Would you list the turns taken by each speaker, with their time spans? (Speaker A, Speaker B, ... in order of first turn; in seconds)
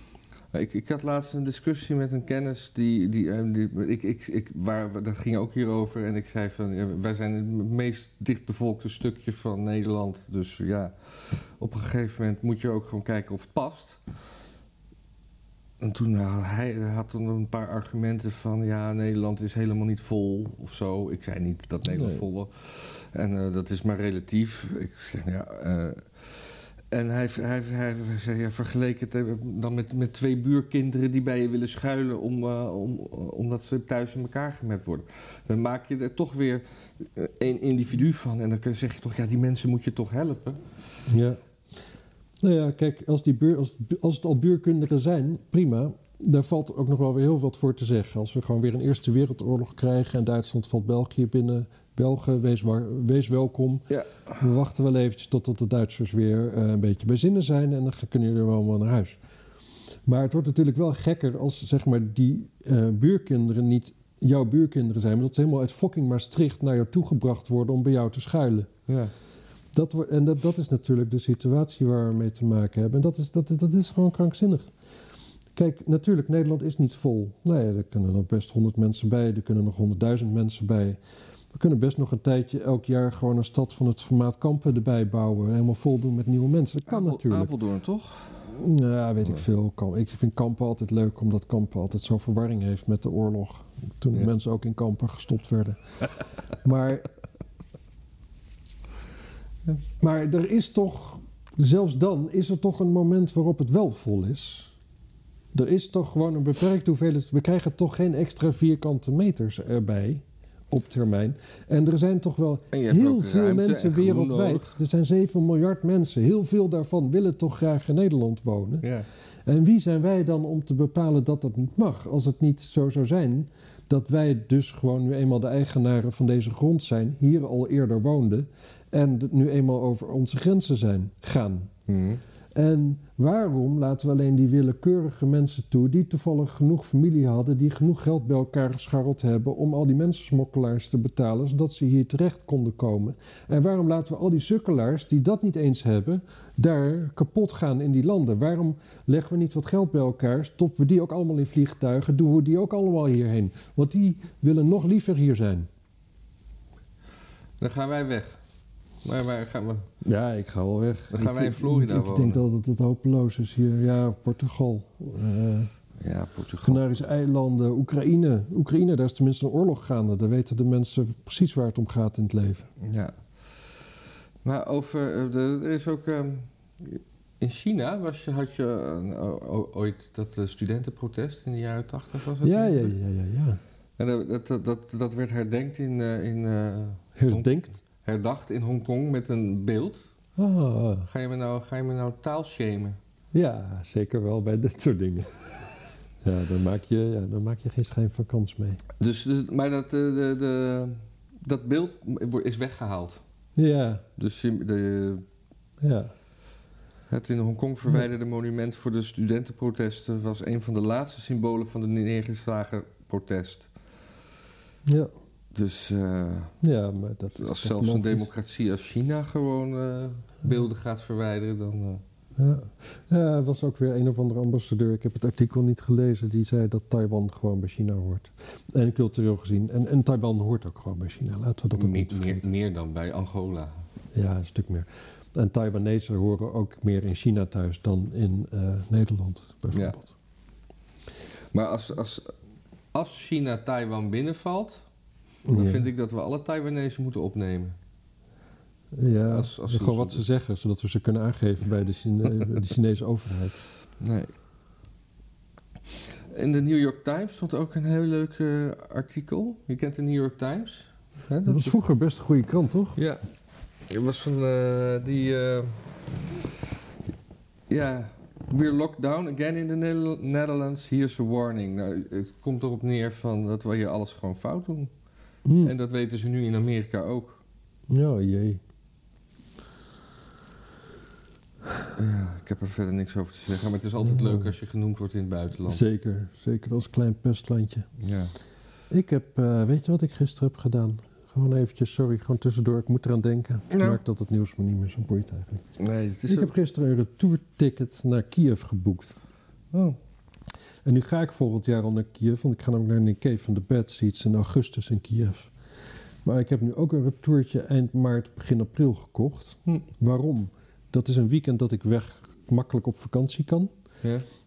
Speaker A: 0.5-14.0, 15.8-40.6, 53.9-54.2, 86.9-88.4, 112.7-114.7, 131.9-132.2, 157.6-158.4, 159.0-159.9, 161.1-162.4, 166.0-166.8, 172.8-173.6, 174.4-182.9, 184.0-190.0, 191.1-193.0, 199.0-203.2, 204.2-205.2, 207.1-213.7, 215.5-216.6, 217.4-222.0, 231.7-233.7, 241.5-242.3, 242.9-244.8, 245.5-247.8, 249.3-250.2, 254.0-254.3, 256.3-261.8, 262.9-263.2, 263.9-266.4, 267.7-274.9, 275.6-277.4, 282.0-285.8, 288.0-288.3, 293.7-294.0, 295.8-296.5, 299.7-300.0
Speaker B: 21.9-22.2, 41.1-41.4, 42.4-59.2, 60.1-68.7, 69.7-74.7, 75.5-81.0, 81.5-87.5, 88.5-96.0, 96.6-97.1, 100.0-104.7, 105.5-118.9, 119.5-131.7, 132.5-155.7, 160.0-165.7, 166.6-172.7, 182.4-183.6, 187.2-187.8, 190.4-191.1, 193.3-195.5, 196.2-198.8, 203.6-204.1, 205.8-206.1, 214.9-215.1, 216.6-218.3, 222.4-232.5, 234.1-240.1, 245.4-245.9, 248.9-253.6, 261.4-263.0, 275.4-275.7, 277.9-278.6, 284.1-284.5, 285.6-287.9, 288.9-295.6, 296.3-299.2, 300.9-305.5, 306.2-313.7